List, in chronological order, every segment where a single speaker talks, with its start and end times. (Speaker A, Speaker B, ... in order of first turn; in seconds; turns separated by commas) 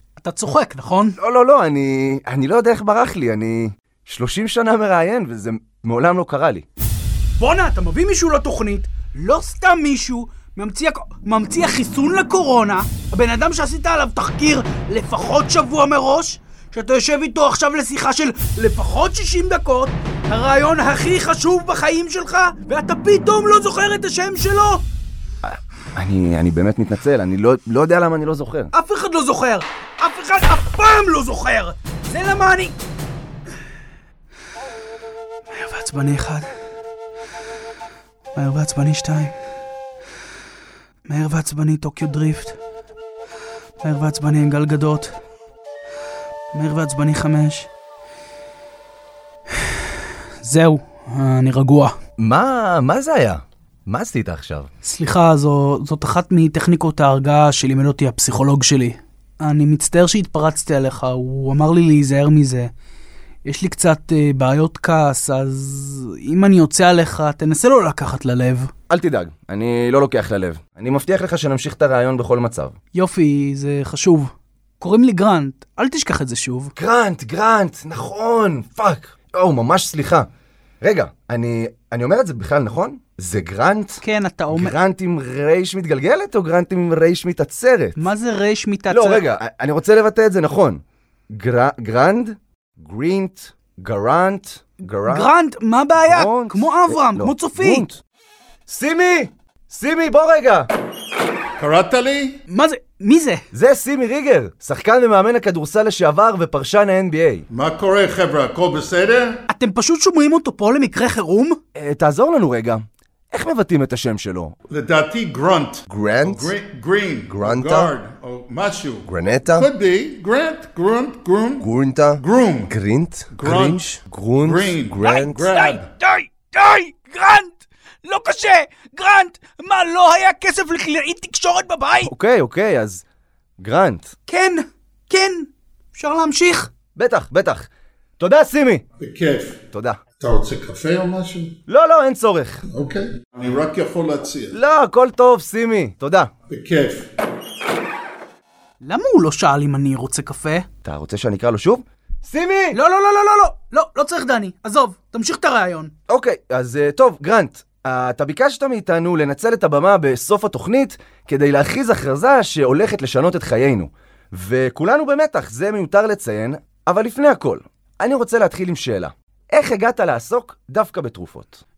Speaker A: 0.2-1.2, Speaker B: 1.2-6.7, Speaker A: 7.4-24.8, Speaker B: 25.4-28.7, Speaker A: 28.7-32.8, Speaker A: 35.5-36.5, Speaker A: 38.4-39.3, Speaker A: 41.1-42.6, Speaker A: 43.8-45.2, Speaker A: 46.5-47.7, Speaker A: 50.4-51.9, Speaker B: 52.2-54.7, Speaker A: 54.8-62.7, Speaker A: 63.5-68.7, Speaker B: 68.9-72.8, Speaker A: 72.9-76.7, Speaker B: 76.8-80.3, Speaker B: 80.8-88.0, Speaker A: 84.0-84.8, Speaker A: 88.0-89.3, Speaker B: 88.9-95.3, Speaker A: 95.1-97.9, Speaker B: 96.0-98.0, Speaker B: 98.7-100.7, Speaker C: 101.6-102.4, Speaker A: 102.5-103.4, Speaker B: 103.5-107.5, Speaker C: 107.5-109.4, Speaker A: 109.5-111.6, Speaker B: 111.8-114.5, Speaker C: 114.7-122.7, Speaker B: 115.9-116.5, Speaker B: 117.3-118.0, Speaker B: 119.1-119.7, Speaker B: 121.6-125.5, Speaker C: 123.3-125.9, Speaker A: 125.0-132.1, Speaker B: 132.0-133.0, Speaker B: 133.6-134.1, Speaker A: 134.3-136.7, Speaker B: 136.9-138.8, Speaker C: 139.0-139.6, Speaker B: 139.7-140.0, Speaker C: 140.2-141.5, Speaker B: 141.7-142.6, Speaker C: 142.7-144.6, Speaker B: 144.5-146.3, Speaker C: 146.5-147.0, Speaker A: 148.8-150.7, Speaker B: 150.8-152.8, Speaker A: 152.7-155.9, Speaker B: 156.1-171.6